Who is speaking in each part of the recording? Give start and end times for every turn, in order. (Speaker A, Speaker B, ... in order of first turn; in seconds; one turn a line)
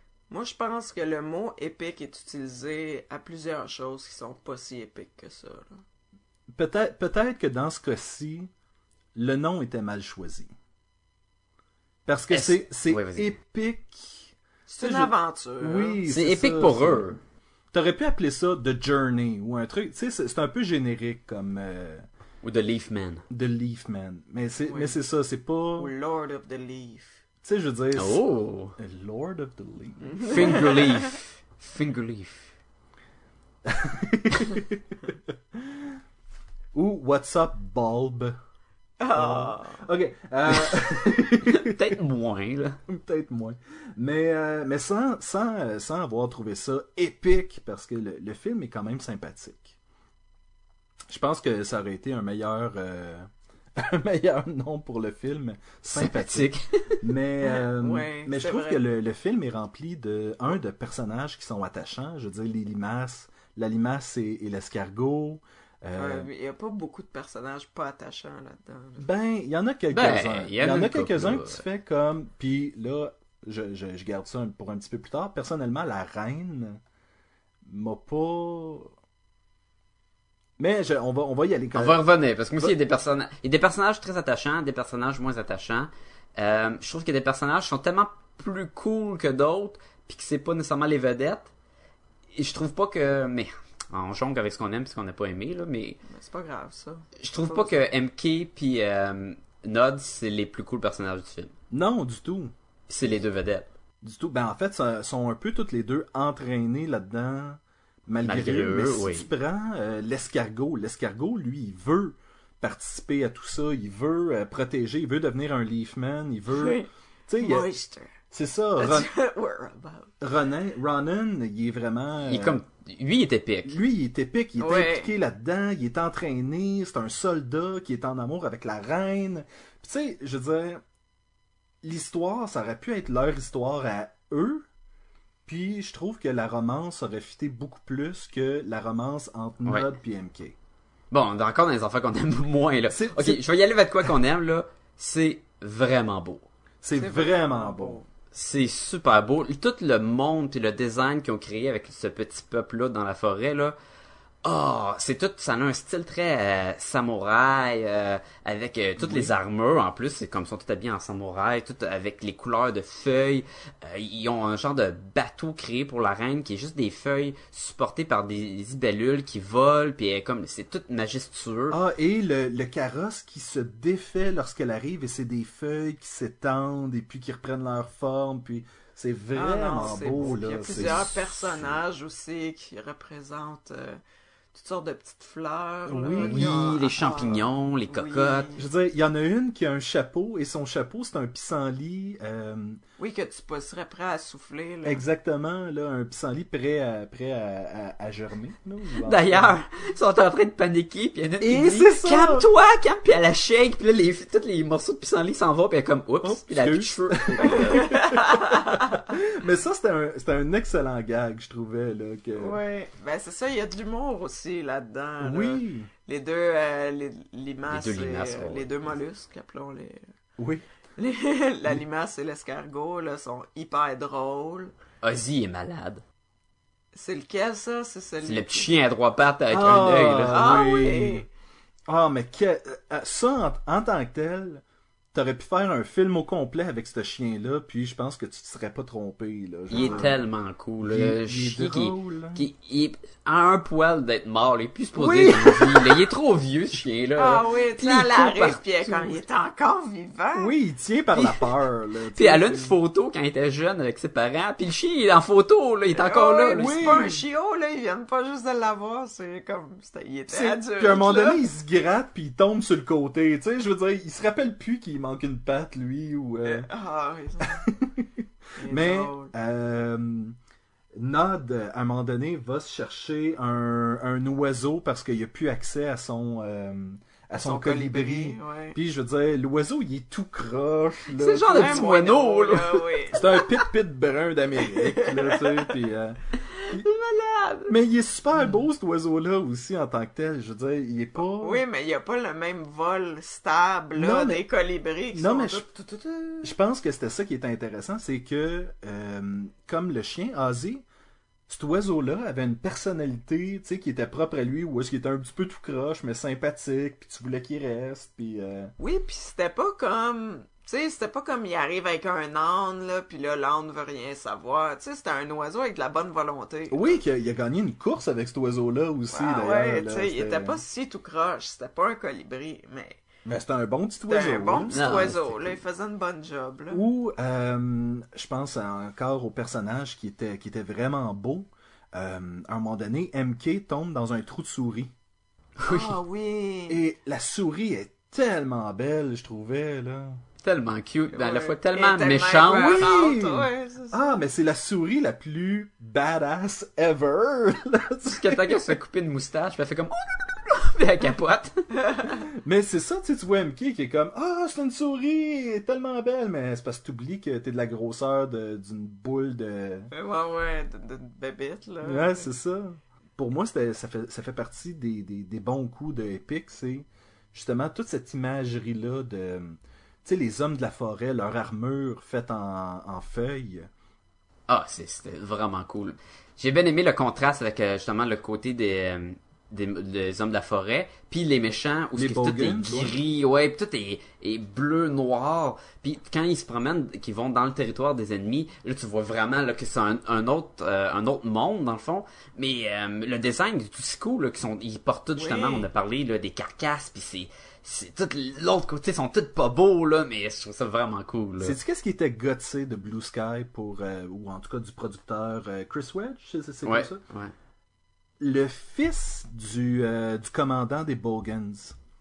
Speaker A: 0.3-5.8
Speaker B: 6.5-8.5
Speaker B: 9.1-10.5
Speaker B: 12.1-17.1
Speaker C: 12.3-13.3
Speaker A: 14.7-16.0
Speaker C: 16.1-17.2
Speaker B: 17.7-22.1
Speaker C: 22.4-23.2
Speaker B: 23.3-25.9
Speaker A: 24.6-24.9
Speaker A: 25.8-27.2
Speaker B: 27.4-28.2
Speaker C: 27.9-28.8
Speaker B: 28.8-30.7
Speaker A: 30.0-31.1
Speaker C: 30.2-32.5
Speaker B: 33.6-35.0
Speaker B: 35.5-36.0
Speaker B: 36.7-38.4
Speaker A: 39.0-39.8
Speaker B: 39.1-42.0
Speaker C: 40.7-42.8
Speaker B: 42.9-49.8
Speaker B: 51.1-66.3
Speaker C: 55.9-57.0
Speaker A: 57.4-58.8
Speaker A: 65.9-69.1
Speaker B: 69.0-76.8
Speaker C: 69.9-71.6
Speaker B: 77.6-78.9
Speaker B: 80.6-82.0
Speaker C: 81.7-91.5
Speaker C: 92.3-96.0
Speaker A: 96.0-97.9
Speaker C: 97.2-101.5
Speaker B: 101.7-102.5
Speaker C: 102.9-103.7
Speaker B: 104.0-117.7
Speaker C: 108.2-109.3
Speaker A: 116.5-118.1
Speaker B: 118.3-119.1
Speaker A: 118.8-120.1
Speaker B: 120.2-122.6
Speaker C: 122.3-123.8
Speaker B: 123.6-130.8
Speaker A: 124.6-125.1
Speaker B: 131.8-134.6
Speaker B: 135.5-140.6
Speaker C: 139.6-139.9
Speaker C: 141.1-146.5
Speaker B: 142.9-143.4
Speaker B: 146.8-148.0
Speaker A: 146.9-148.1
Speaker C: 148.3-153.8
Speaker C: 154.4-171.8
Speaker B: 159.0-159.3
Speaker B: 171.7-181.8
Speaker A: 179.3-184.0
Speaker A: 184.5-188.6
Speaker B: 185.9-186.6
Speaker C: 186.2-188.5
Speaker B: 188.6-192.8
Speaker A: 193.0-195.0
Speaker B: 194.8-199.6
Speaker C: 199.0-207.9
Speaker B: 201.4-202.5
Speaker B: 206.2-212.6
Speaker A: 207.5-209.0
Speaker A: 212.4-220.0
Speaker B: 215.2-215.9
Speaker C: 217.7-218.7
Speaker B: 220.4-220.6
Speaker A: 221.0-224.7
Speaker C: 225.0-226.0
Speaker A: 226.9-228.8
Speaker C: 228.2-230.5
Speaker B: 229.5-231.3
Speaker A: 230.3-231.3
Speaker B: 231.9-234.6
Speaker B: 235.1-240.2
Speaker C: 239.7-249.1
Speaker A: 239.7-240.1
Speaker B: 240.8-242.4
Speaker B: 244.9-246.0
Speaker A: 247.2-250.5
Speaker B: 250.3-252.8
Speaker C: 252.1-256.8
Speaker A: 255.9-261.4
Speaker B: 256.5-257.2
Speaker B: 260.3-266.7
Speaker A: 266.4-267.6
Speaker B: 267.4-270.4
Speaker A: 268.6-269.3
Speaker B: 270.9-281.9
Speaker A: 277.3-278.8
Speaker C: 281.2-283.0
Speaker A: 281.5-283.5
Speaker B: 283.1-286.2
Speaker A: 284.6-285.7
Speaker C: 286.6-287.7
Speaker B: 287.7-291.6
Speaker A: 291.2-296.4
Speaker B: 294.0-294.4
Speaker B: 295.1-295.7
Speaker B: 296.4-300.9
Speaker B: 301.5-308.7
Speaker A: 308.8-317.0
Speaker B: 316.7-320.6
Speaker A: 319.1-323.0
Speaker B: 323.2-325.1
Speaker A: 324.1-326.8
Speaker C: 324.7-325.6
Speaker B: 326.7-334.9
Speaker C: 335.6-335.9
Speaker A: 335.6-336.8
Speaker B: 336.7-340.2
Speaker C: 340.4-342.9
Speaker A: 341.1-344.0
Speaker B: 342.5-348.8
Speaker C: 348.1-351.6
Speaker A: 351.7-352.2
Speaker B: 352.3-359.9
Speaker A: 359.9-362.3
Speaker B: 361.8-373.7
Speaker C: 374.5-401.6
Speaker B: 381.9-383.0
Speaker A: 395.2-395.7
Speaker B: 401.4-407.0
Speaker C: 406.6-407.3
Speaker B: 408.2-411.8